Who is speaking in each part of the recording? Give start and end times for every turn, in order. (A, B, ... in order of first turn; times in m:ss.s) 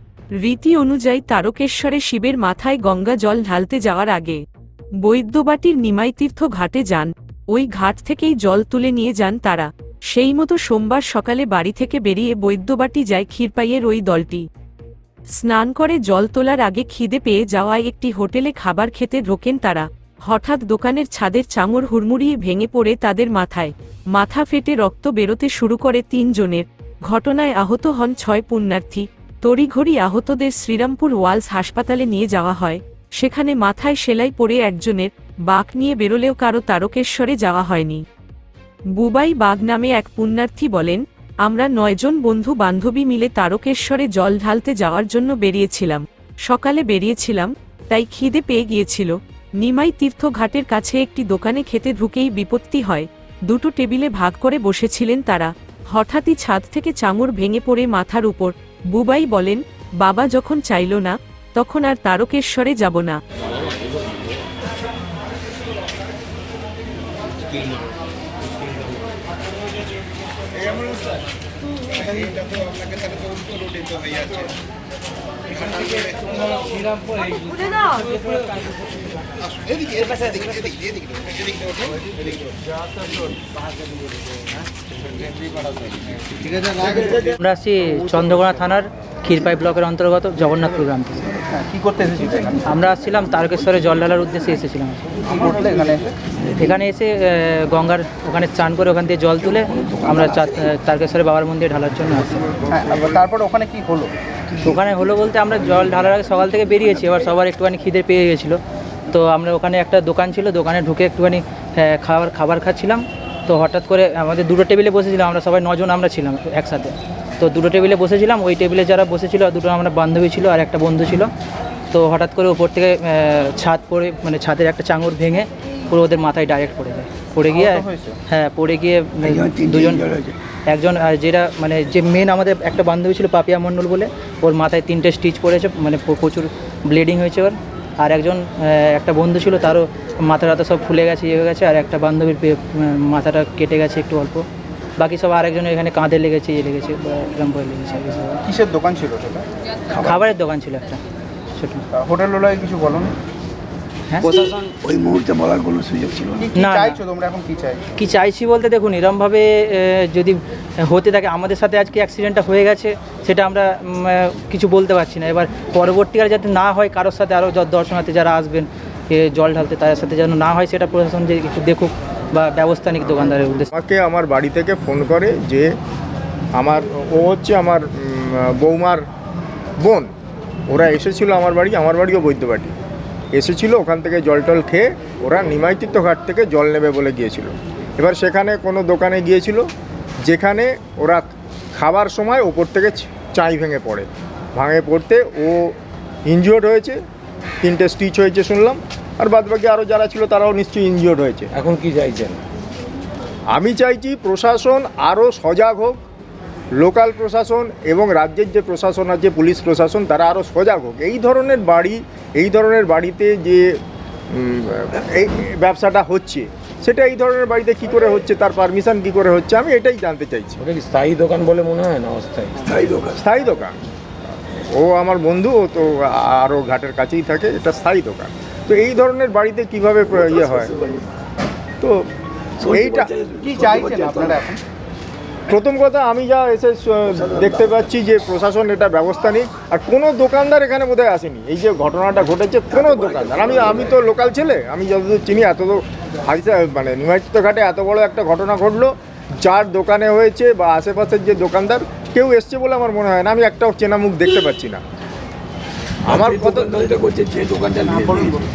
0:00.4-0:04.4 A
0:05.0-0:14.5 A
0:15.4-0:38.0 A
0:38.9-1:03.2 A
1:26.8-1:27.2 B
1:27.3-1:31.4 C
1:31.5-1:32.7 D
1:32.6-1:35.2 C
1:35.2-1:36.2 D
1:36.3-1:36.8 B
1:36.6-1:43.1 C
1:39.4-1:40.8 B
1:42.7-1:44.1 D
1:44.6-1:48.6 C
1:46.8-1:47.1 B
1:49.1-2:01.3 C
2:01.9-2:10.0 C
2:07.5-2:08.2 D
2:09.2-2:10.4 B
2:10.7-2:24.4 C
2:25.0-2:28.4 C
2:28.5-2:29.5 D
2:29.9-2:30.2 B
2:30.0-2:31.0 C
2:31.6-2:31.8 C
2:31.9-2:33.2 D
2:34.2-2:36.5 B
2:36.4-2:37.9 D
2:36.5-2:37.0 C
2:37.9-2:53.7 C
2:53.7-2:55.7 E
2:56.6-2:59.0 E
2:59.8-3:00.1 E
3:00.7-3:02.8 E
3:03.3-3:09.7 E
3:10.2-3:15.8 E
3:16.3-3:17.0 E
3:17.6-3:21.5 E
3:21.5-3:22.4 F
3:23.5-3:26.0 E
3:26.8-3:33.8 E
3:34.3-3:40.6 E
3:40.6-3:42.7 F
3:42.6-3:43.2 B
3:43.2-3:43.8 E
3:44.7-3:50.7 E
3:50.2-3:51.1 B
3:52.6-3:54.4 B
3:52.6-3:53.1 E
3:53.4-3:54.6 D
3:55.5-4:14.8 E
3:57.1-3:57.8 B
4:02.7-4:03.9 B
4:16.1-4:16.8 E
4:16.1-4:18.5 B